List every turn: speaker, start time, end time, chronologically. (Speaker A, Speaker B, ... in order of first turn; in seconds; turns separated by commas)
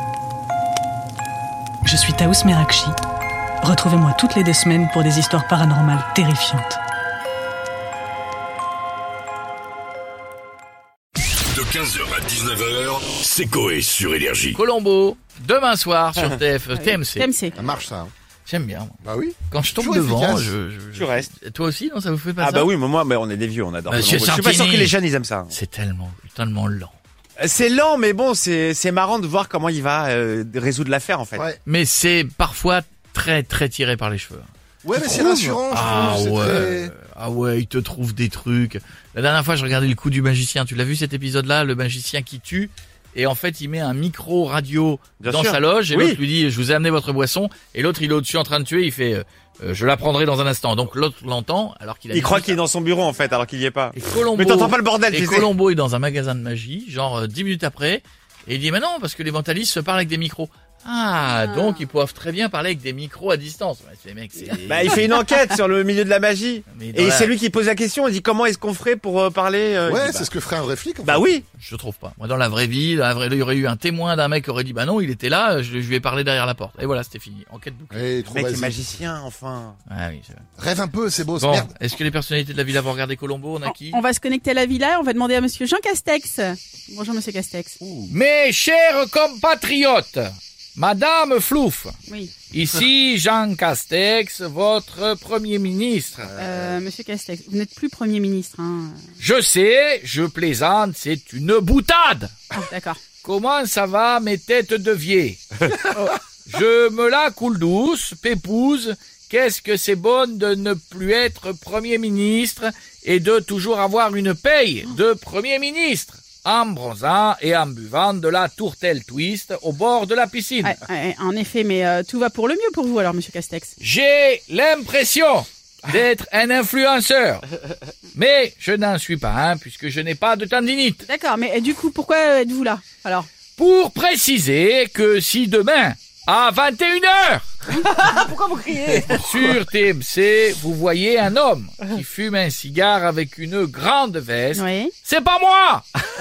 Speaker A: 1.8-3.0, Speaker A: 3.6-6.8, Speaker B: 11.5-14.6, Speaker C: 14.6-17.3, Speaker D: 16.8-17.6, Speaker E: 17.6-18.1, Speaker C: 18.5-19.0, Speaker E: 19.0-20.6, Speaker C: 19.5-22.7, Speaker F: 20.9-21.3, Speaker F: 22.4-25.5, Speaker C: 23.9-25.0, Speaker C: 25.5-26.9, Speaker F: 27.4-31.5, Speaker C: 31.6-52.6, Speaker E: 34.8-36.9, Speaker F: 45.2-46.2, Speaker F: 52.1-55.5, Speaker C: 54.0-65.2, Speaker F: 64.7-70.3, Speaker C: 66.7-67.3, Speaker E: 69.9-71.3, Speaker F: 71.0-71.5, Speaker C: 71.5-78.1, Speaker E: 77.9-78.8, Speaker F: 78.3-79.8, Speaker C: 79.9-80.5, Speaker E: 80.6-81.7, Speaker C: 81.4-84.0, Speaker D: 83.7-87.6, Speaker C: 88.1-92.0, Speaker C: 92.5-96.4, Speaker E: 96.4-96.7, Speaker D: 96.4-99.0, Speaker C: 99.2-102.4, Speaker D: 102.6-103.0, Speaker C: 103.2-105.4, Speaker C: 106.5-120.8, Speaker D: 120.6-123.7, Speaker C: 123.8-127.4, Speaker C: 128.2-131.1, Speaker D: 131.1-133.3, Speaker C: 133.6-145.9, Speaker D: 144.6-144.8